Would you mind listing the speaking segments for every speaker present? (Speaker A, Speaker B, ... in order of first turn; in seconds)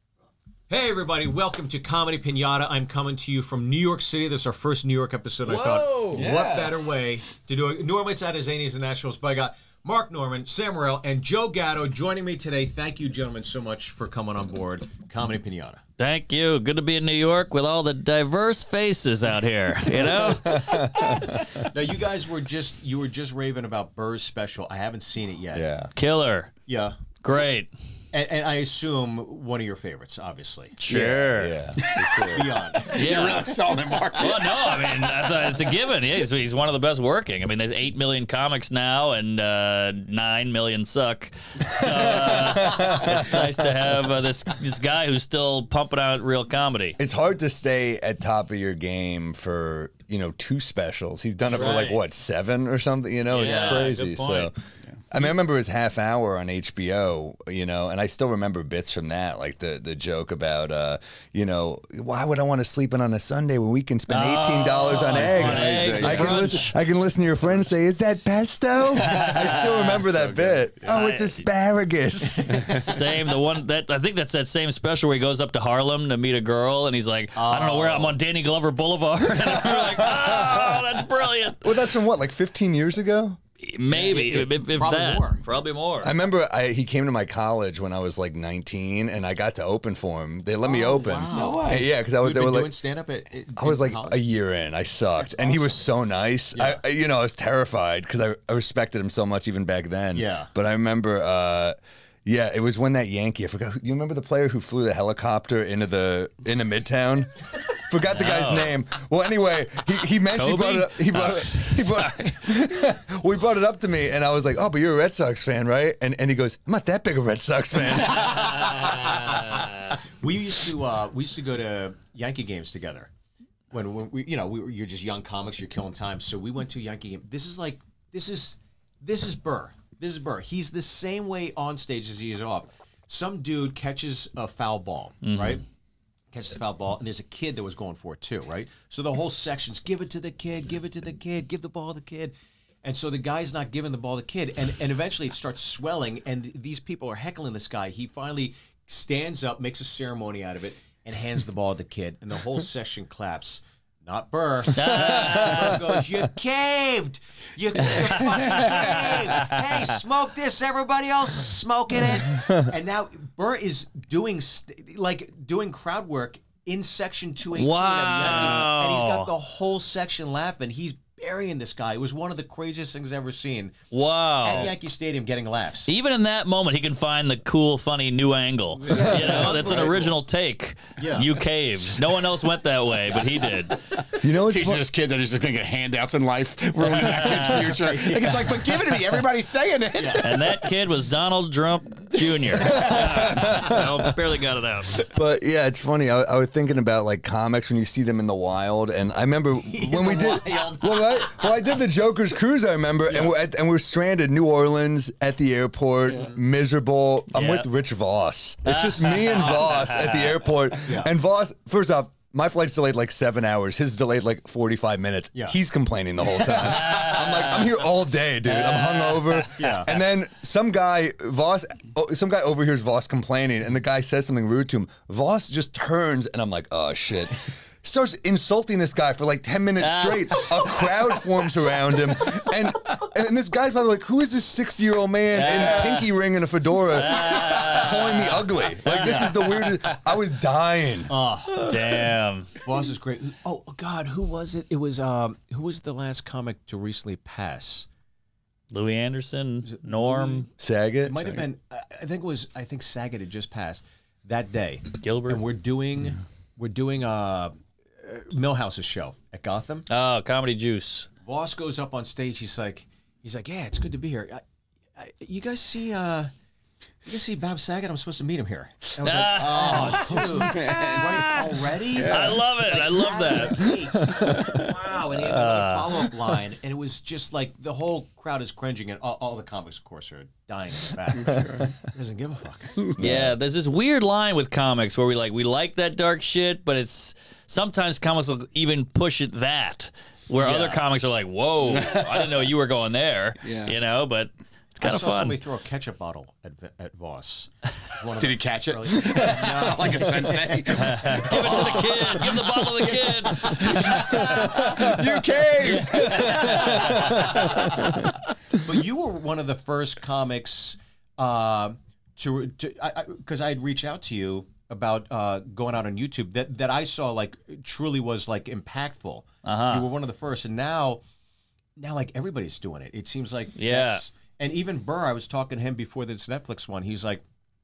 Speaker A: 0.7-15.8, 21.7-25.7, 26.7-27.0, 28.1-30.8, 32.1-33.0, 53.4-54.0, 65.0-66.7, 69.2-70.7, 77.3-78.2, 83.9-85.6, 90.6-94.2, 95.2-95.9, 96.5-96.8, 100.1-100.5, 120.2-123.1, 123.7-135.6, 136.3-173.8, 174.4-175.9, 178.8-180.2, 181.0-181.3, 190.0-190.3, 199.6-201.5, 203.1-203.3, 206.1-206.4, 210.8-211.1, 219.5-219.9, 235.4-235.9, 238.9-239.3, 241.1-241.7, 242.6-247.9, 249.6-250.5, 251.0-259.9, 261.2-264.4, 264.9-266.3, 267.0-282.8, 290.4-290.8, 294.8-304.7, 308.6-321.0, 321.8-327.2
Speaker B: 5.5-6.2, 16.0-21.2, 25.9-26.5, 27.2-27.7, 30.8-31.6, 32.9-47.0, 51.5-52.0, 53.3-54.5, 64.1-66.7, 69.0-69.8, 70.8-71.5, 72.5-81.7, 83.6-86.1, 108.1-108.7, 110.3-112.4, 118.4-119.7, 135.2-135.6, 154.7-155.8, 158.2-159.6, 167.5-169.3, 173.9-174.7, 175.9-183.8, 186.9-188.2, 190.2-195.0, 207.3-207.7, 208.6-210.4, 216.4-217.8, 218.4-219.7, 229.8-230.9, 235.3-236.1, 236.9-239.8, 241.6-242.5, 248.7-250.5, 255.0-255.4, 259.9-261.1, 269.0-271.2, 272.1-273.8, 275.1-276.1, 283.0-295.4, 300.8-305.0, 305.6-307.3, 319.4-319.9, 323.6-324.0
Speaker C: 6.2-6.7, 30.9-31.2, 31.8-35.1, 65.6-66.2, 91.3-91.8, 184.2-190.6, 269.5-272.5, 281.2-281.7, 291.6-292.5, 293.4-293.7, 298.1-308.1
Speaker D: 6.2-6.4, 19.9-21.6, 25.5-25.9, 30.9-32.7, 41.7-43.8, 47.0-54.5, 55.1-72.9, 79.7-80.7, 81.6-83.4, 86.0-92.8, 93.5-119.0, 154.8-155.6, 178.9-179.6, 184.2-184.9, 192.5-194.2, 195.1-241.1, 250.6-251.5, 283.0-283.3, 304.1-304.4, 306.1-307.6